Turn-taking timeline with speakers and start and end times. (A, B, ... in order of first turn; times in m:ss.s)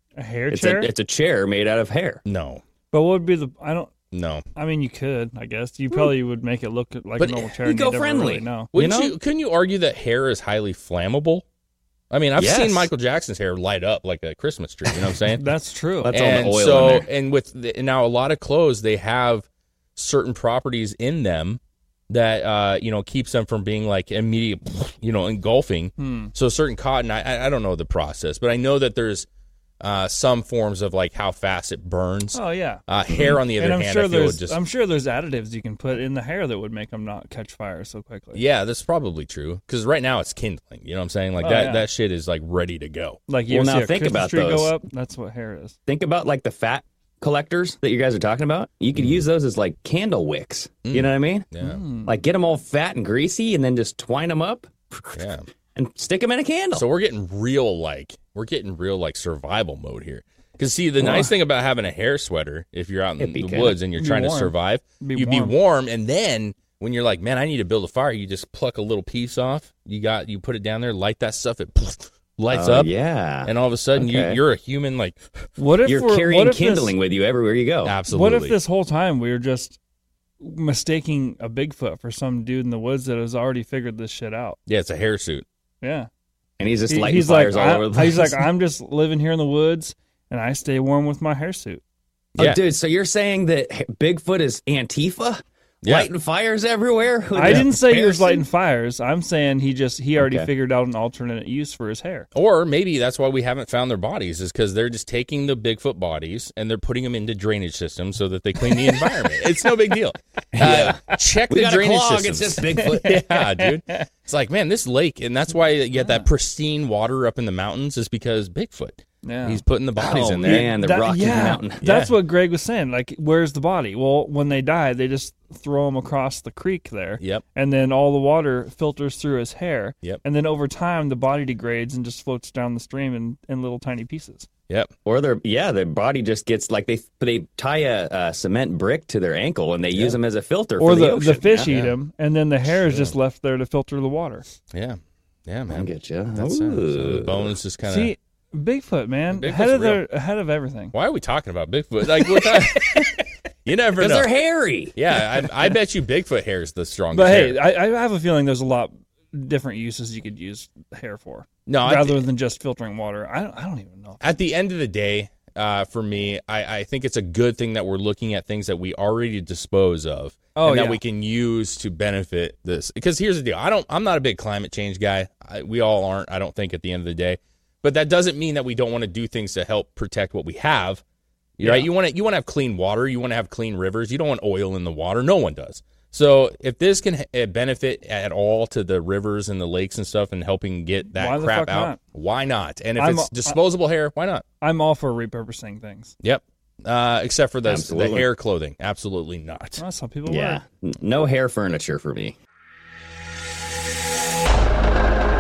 0:00.2-0:00.9 A
0:00.5-0:02.2 B
0:02.2-0:02.6 C
0:02.9-0:03.9 A
0:04.1-0:04.4 C
0:04.6-0:08.7 A
0:07.2-0:07.6 C
0:07.6-0:09.2 B
0:08.7-0:11.4 C
0:12.1-0:15.4 C
0:12.4-0:12.9 B
0:15.3-0:16.2 A
0:16.0-0:17.1 B
0:16.1-0:29.3 C
0:26.0-0:26.3 A
0:29.8-0:34.6 C
0:32.3-0:32.8 A
0:33.4-0:38.4 A
0:38.3-0:43.2 C
0:41.4-0:41.9 A
0:43.3-0:45.8 A
0:43.5-0:44.8 B
0:45.9-0:51.5 B
0:49.0-0:49.3 C
0:50.8-0:51.8 C
0:51.6-0:52.2 A
0:52.0-0:56.8 B
0:55.2-0:55.5 C
0:56.7-1:12.9 C
1:01.0-1:01.3 B
1:03.2-1:03.8 B
1:03.9-1:05.6 A
1:12.5-1:14.4 B
1:13.4-1:15.5 C
1:15.6-1:17.0 A
1:15.8-1:18.0 B
1:17.8-1:18.6 C
1:18.1-1:19.8 A
1:20.4-1:24.6 A
1:24.7-1:25.4 C
1:25.8-1:26.1 A
1:26.6-1:28.5 B
1:26.9-1:31.8 A
1:32.4-1:38.4 B
1:35.8-1:36.1 C
1:37.4-1:42.3 A
1:37.4-1:37.6 C
1:40.2-1:40.5 B
1:42.3-2:00.7 C
1:50.5-1:53.2 B
1:52.8-1:54.0 A
1:56.0-1:56.3 A
1:59.2-1:59.6 A
2:00.0-2:01.8 B
2:00.4-2:14.5 A
2:01.8-2:02.1 C
2:14.7-2:14.9 C
2:15.0-2:21.7 B
2:20.8-2:24.5 A
2:21.6-2:22.0 C
2:22.8-2:23.2 C
2:24.7-2:28.1 C
2:25.7-2:27.5 B
2:27.8-2:31.0 A
2:29.3-2:30.0 C
2:30.9-2:34.3 C
2:32.2-2:33.2 A
2:34.0-2:34.9 B
2:35.0-2:37.6 C
2:35.4-2:35.6 A
2:37.1-2:44.4 A
2:41.7-2:42.2 C
2:44.2-3:01.0 C
2:50.6-2:51.0 A
3:01.6-3:14.4 C
3:01.6-3:01.9 A
3:11.1-3:12.0 A
3:13.0-3:13.6 A
3:14.6-3:16.1 A
3:16.2-3:19.8 C
3:17.6-3:18.3 B
3:19.8-3:20.6 A
3:20.3-3:22.4 B